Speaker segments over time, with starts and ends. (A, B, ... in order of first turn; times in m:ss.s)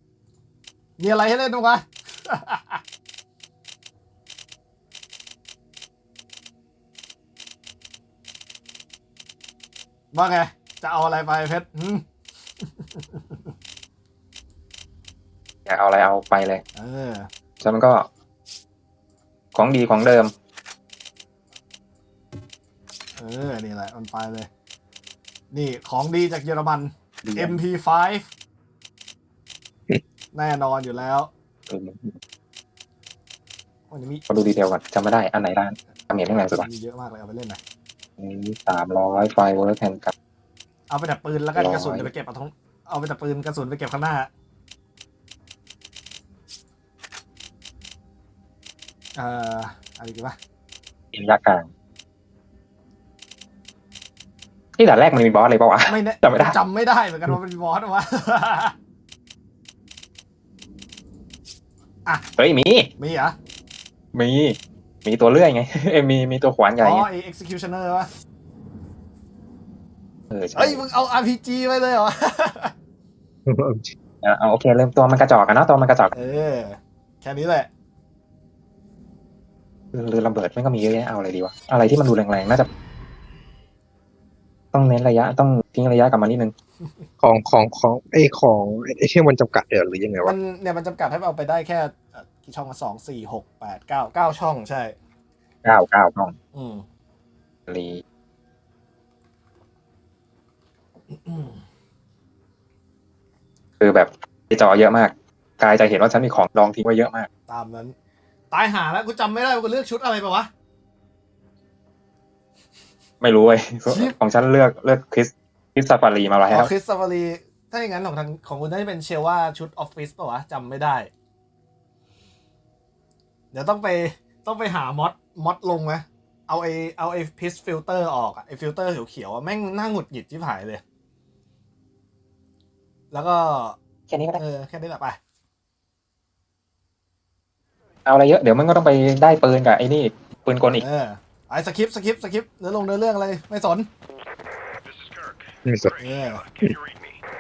0:01.0-0:02.8 A
0:10.1-0:12.0 A
0:12.6-0:13.5 A
0:15.7-0:16.6 B
0:16.8-0:17.3 A
0:17.6-0:18.1 B
0:19.5-0:20.3 B
0:23.2-0:24.5 A
0:25.5-0:28.3 A
0:27.2-0:27.6 B
0:30.3-0:31.3 A
0:31.7-0:32.2 B
0:33.9-0:34.3 A
0:34.3-0:36.7 B
0:36.6-0:37.6 A
0:38.2-0:40.1 B
0:40.9-0:44.3 A
0:41.6-0:42.1 B
0:49.2-0:50.4 A
0:51.1-0:51.7 B
0:54.8-0:56.6 B
0:55.9-0:58.8 A
1:02.4-1:02.9 B
1:03.0-1:03.4 A
1:04.2-1:07.1 B
1:06.8-1:08.1 A
1:10.3-1:10.8 B
1:10.5-1:12.7 A
1:13.5-1:13.9 C
1:14.2-1:16.1 B
1:16.1-1:17.7 A
1:19.9-1:22.7 B
1:24.7-1:26.5 B
1:27.2-1:30.4 C
1:30.2-1:35.0 A
1:35.6-1:36.4 B
1:36.5-1:36.8 A
1:37.7-1:38.0 B
1:41.1-1:41.6 A
1:43.8-1:47.3 B
1:47.5-1:48.0 A
1:48.5-1:50.5 A
1:53.2-1:56.7 B
1:53.9-1:54.1 A
1:56.5-2:01.1 A
2:03.5-2:10.8 A
2:13.1-2:13.8 A
2:14.1-2:14.4 B
2:14.4-2:15.2 A
2:18.1-2:20.8 B
2:20.8-2:23.9 A
2:25.6-2:26.0 C
2:26.0-2:26.4 A